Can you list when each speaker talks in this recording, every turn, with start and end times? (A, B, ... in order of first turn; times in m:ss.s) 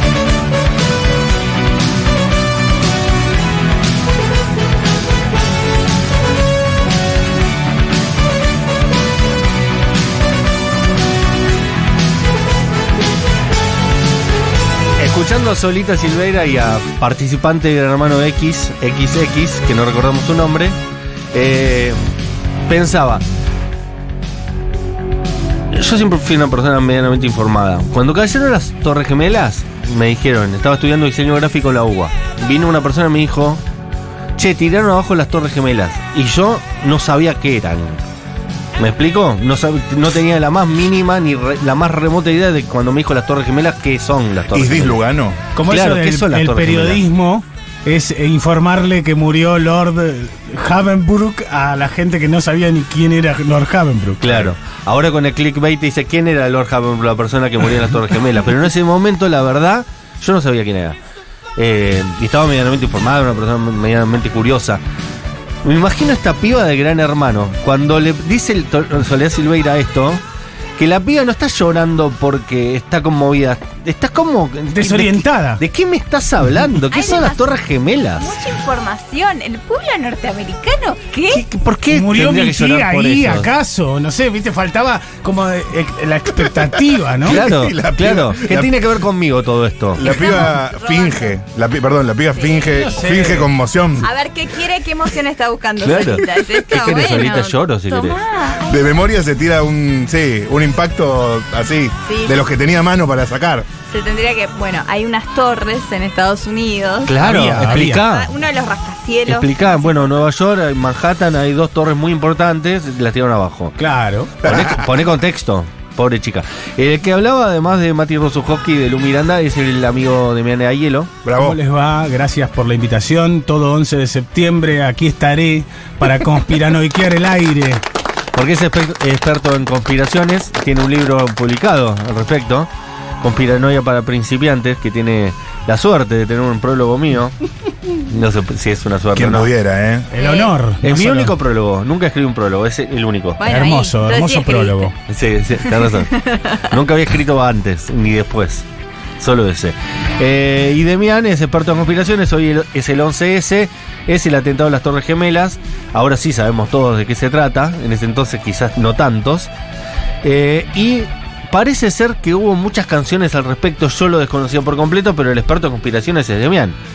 0:15.0-0:20.8 A
0:21.3-0:22.0 A
0:22.7-0:23.2 A
0:25.7-0:33.6 A
0:34.4-0:38.0 A
0:38.8-0:45.0 A
0:44.5-0:45.4 B
0:45.6-0:54.2 C
0:45.6-0:47.0 A
0:54.2-1:01.0 A
0:54.2-0:54.5 B
1:01.6-1:04.8 A
1:05.6-1:10.2 A
1:10.8-1:18.4 A
1:14.7-1:15.6 C
1:16.9-1:17.6 D
1:18.2-1:21.4 D
1:21.3-1:23.5 A
1:21.9-1:27.4 C
1:27.2-1:28.8 B
1:27.3-1:30.3 A
1:30.0-1:34.1 B
1:30.0-1:31.4 D
1:32.4-1:33.0 D
1:32.8-1:33.5 C
1:34.0-1:38.7 D
1:35.8-1:38.2 A
1:38.7-1:43.7 B
1:42.1-1:42.4 D
1:43.9-1:47.2 D
1:47.0-1:48.3 A
1:47.2-1:48.0 C
1:47.8-1:50.0 D
1:49.3-1:53.8 A
1:53.8-1:54.3 C
1:54.4-1:54.9 B
1:54.4-2:01.1 A
2:01.2-2:01.6 B
2:01.4-2:07.8 C
2:08.3-2:12.7 A
2:13.2-2:17.4 A
2:18.1-2:19.5 A
2:19.2-2:20.1 B
2:20.1-2:21.3 C
2:20.2-2:20.5 D
2:20.8-2:23.4 A
2:23.4-2:24.9 D
2:23.4-2:25.0 C
2:25.1-2:28.7 A
2:29.2-2:39.5 A
2:40.2-2:46.8 A